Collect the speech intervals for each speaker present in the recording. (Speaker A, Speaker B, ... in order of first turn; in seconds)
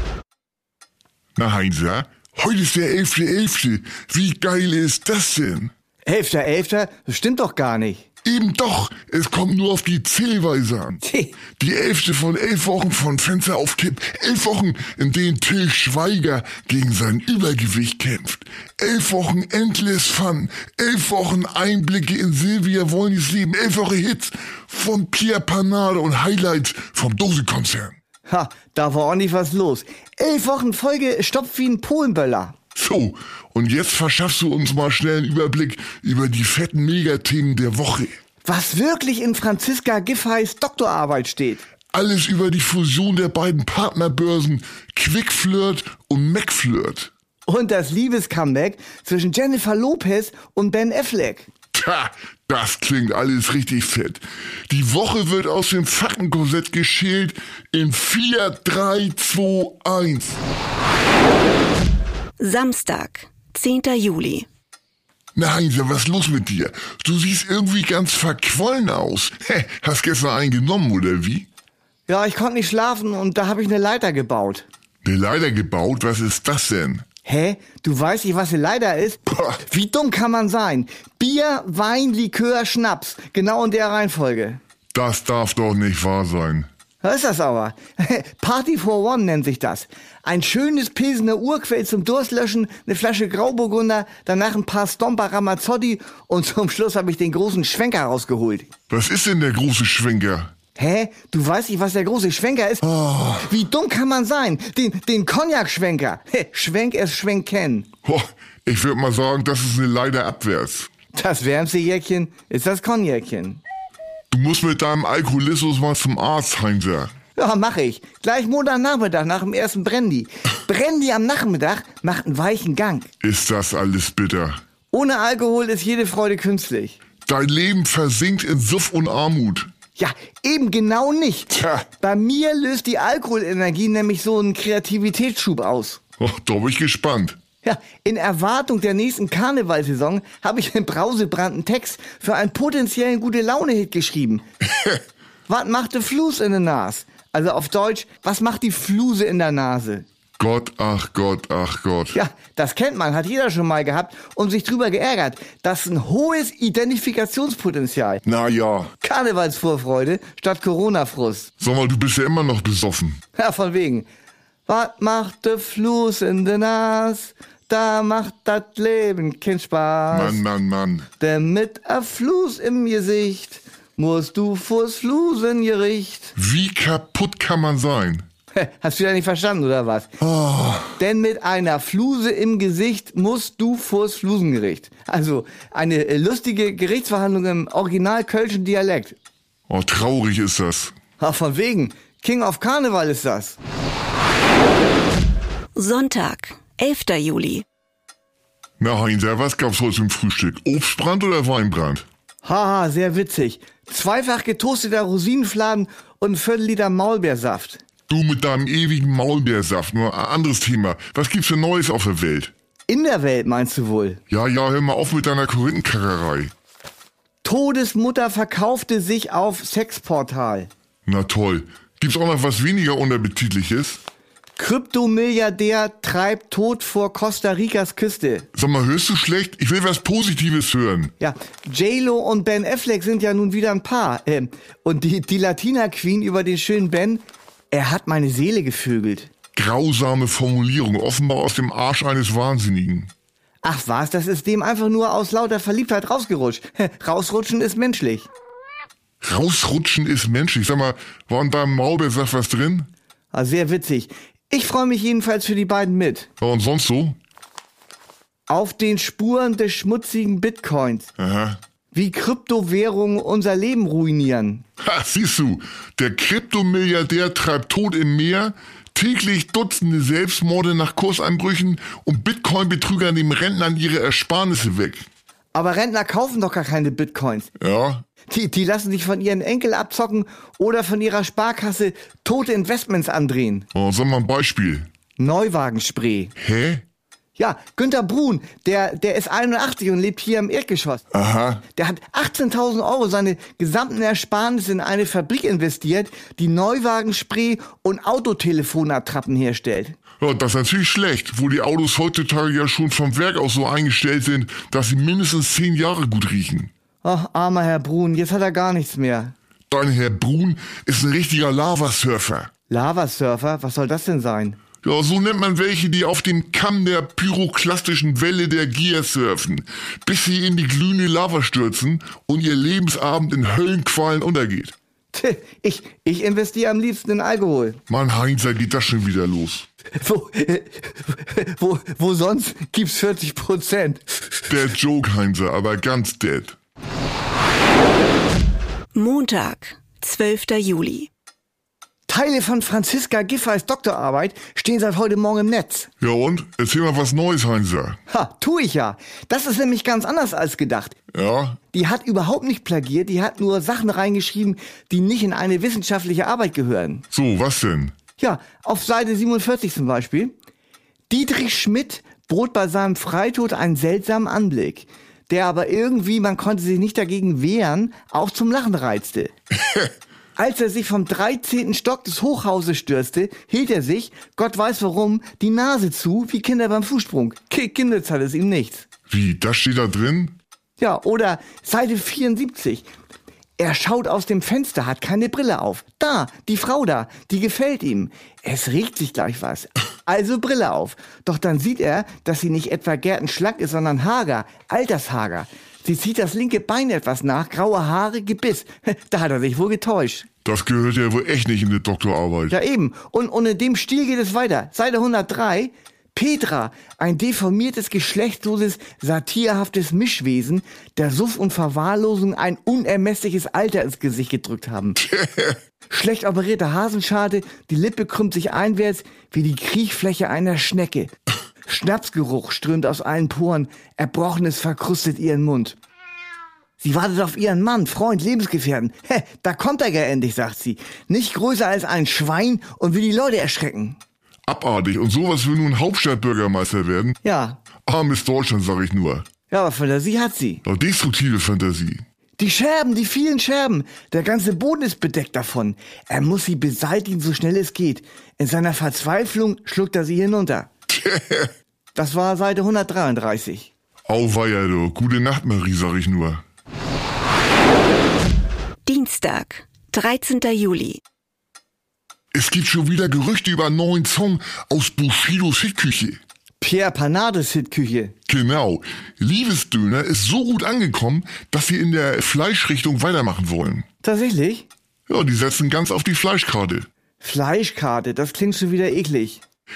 Speaker A: 1.4-5.7, 8.2-11.0, 11.6-28.0, 32.7-38.2, 41.9-47.1, 51.7-60.4, 65.3-71.5, 75.0-77.0, 79.3-79.6, 84.9-86.7, 98.9-100.5, 102.8-103.5, 108.0-110.9, 114.3-117.1, 123.2-124.6, 127.2-129.7, 131.5-131.8, 136.2-137.4, 150.4-152.2, 158.2-158.9, 161.6-163.2, 170.1-171.1, 176.3-178.2, 180.2-180.9, 189.7-190.9, 198.8-202.0, 208.1-212.5, 214.3-216.5, 221.1-224.0, 228.5-231.1, 239.6-243.1, 249.2-252.9, 256.4-257.2, 261.2-261.6, 264.8-275.1, 277.6-278.0, 283.7-284.9, 286.4-286.8, 291.1-291.6, 300.2-306.7, 309.7-312.5, 314.8-324.7, 327.9-329.7, 334.5-336.6, 346.0-348.0, 351.1-351.6, 357.1-357.9, 379.1-380.4, 400.4-402.5, 415.0-415.6, 434.5-437.2, 437.9-439.2, 440.6-442.0, 450.9-451.5, 454.1-456.4, 462.3-466.2, 468.3-473.8, 475.1-476.9
Speaker B: 6.0-8.0, 11.0-11.4, 28.3-32.5, 38.4-41.6, 47.5-51.5, 72.1-74.6, 77.2-84.6, 87.0-98.7, 100.8-102.8, 103.4-107.9, 111.1-113.6, 117.3-123.1, 124.9-127.0, 129.9-136.0, 137.6-144.4, 145.5-150.0, 152.1-158.2, 159.0-161.5, 163.3-164.1, 164.7-170.4, 171.2-176.3, 178.5-180.1, 180.9-189.2, 191.2-193.6, 202.4-207.8, 212.9-214.2, 217.4-220.7, 224.6-228.5, 231.2-239.3, 243.6-248.3, 253.3-256.3, 258.5-261.1, 261.9-264.6, 275.5-277.5, 278.3-283.7, 285.2-286.3, 287.4-291.0, 291.8-299.9, 307.0-309.3, 312.7-314.6, 325.1-327.8, 330.0-334.4, 342.1-345.9, 348.1-350.9, 351.7-357.0, 358.2-360.3, 361.1-369.3, 370.4-378.9, 380.8-382.9, 383.6-400.3, 402.5-415.0, 415.9-421.1, 421.6-425.8, 426.8-434.0, 437.2-437.6, 439.5-440.6, 442.4-450.7, 451.9-453.7, 466.6-468.1, 474.0-474.7, 477.2-479.4
Speaker C: 62.4-64.5, 195.8-197.6, 338.9-341.1, 458.9-461.0